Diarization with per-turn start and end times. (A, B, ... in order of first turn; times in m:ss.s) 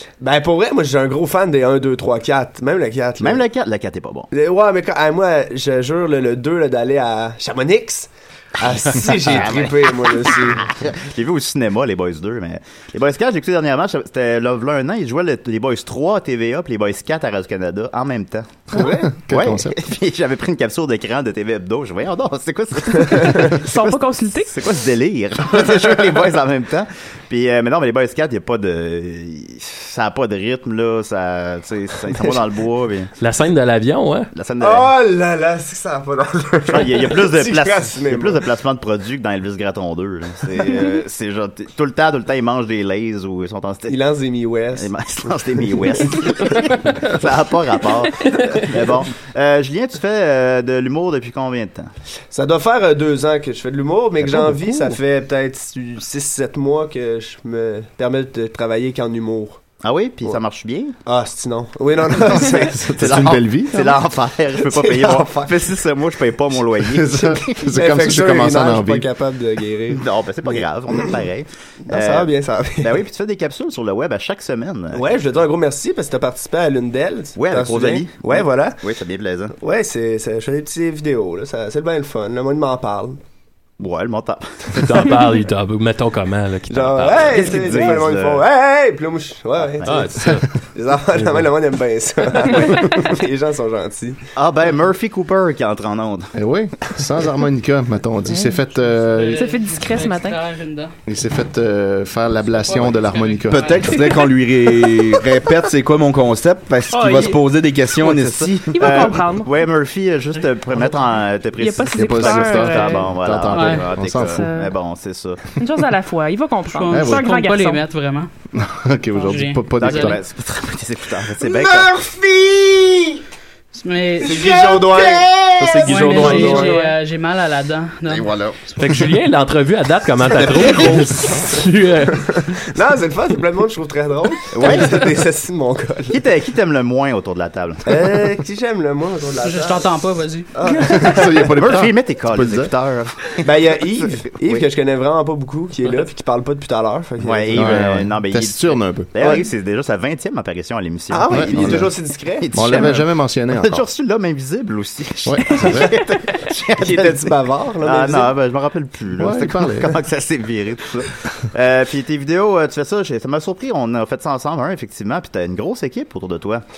0:00.2-0:03.4 A
0:03.2-0:04.3 B
0:04.3-0:10.7 A
0:08.9-0:33.1 B
0:18.7-0:19.1 A
0:18.8-0:19.8 C
0:23.5-0:24.5 D
0:33.2-0:34.3 E
0:34.3-0:34.9 B
0:34.6-0:38.4 A
0:36.7-0:44.0 B
0:43.9-0:44.9 A
0:44.7-0:51.9 B
0:52.3-0:59.6 A
0:59.8-1:00.9 B
1:01.0-1:03.0 A
1:02.7-1:04.0 C
1:02.8-1:07.6 B
1:04.6-1:05.6 A
1:06.9-1:09.1 C
1:07.6-1:11.1 A
1:09.9-1:15.0 B
1:11.8-1:13.0 A
1:14.9-1:18.8 A
1:17.4-1:19.5 B
1:19.5-1:23.2 A
1:23.8-1:25.0 B
1:24.7-1:27.4 E
1:26.7-1:30.1 A
1:27.1-1:28.4 B
1:29.6-1:30.3 B
1:29.8-1:30.5 E
1:30.7-1:34.2 A
1:34.4-1:36.3 B
1:36.3-1:39.4 C
1:38.3-1:38.6 D
1:39.1-1:40.9 F
1:39.3-1:40.4 D
1:41.0-1:43.8 C
1:42.5-1:44.2 F
1:43.5-1:48.8 G
1:46.9-1:47.5 D
1:48.0-1:55.6 B
1:48.7-1:49.5 D
1:51.6-1:53.2 D
1:51.9-1:54.5 C
1:53.5-1:53.9 F
1:54.2-1:54.7 D
1:55.6-1:57.8 D
1:56.7-1:58.3 F
1:56.9-1:57.3 C
1:58.5-2:00.2 C
1:59.2-2:00.2 F
1:59.8-2:01.9 B
2:01.4-2:03.2 G
2:03.7-2:04.5 F
2:04.2-2:05.3 A
2:04.2-2:06.6 G
2:05.6-2:06.9 E
2:05.8-2:08.3 F
2:06.1-2:06.7 A
2:08.1-2:08.6 G
2:08.8-2:12.6 E
2:10.3-2:11.4 G
2:12.3-2:16.2 A
2:14.5-2:15.1 B
2:16.1-2:18.2 B
2:17.8-2:20.0 A
2:19.4-2:20.5 F
2:20.5-2:21.5 A
2:20.8-2:22.7 C
2:21.2-2:23.7 B
2:23.4-2:27.8 A
2:27.2-2:46.6 B
2:27.5-2:29.1 C
2:29.2-2:29.4 A
2:31.1-2:32.9 A
2:31.3-2:31.9 C
2:32.5-2:33.8 C
2:35.2-2:36.0 C
2:36.8-2:38.3 A
2:39.2-2:40.0 C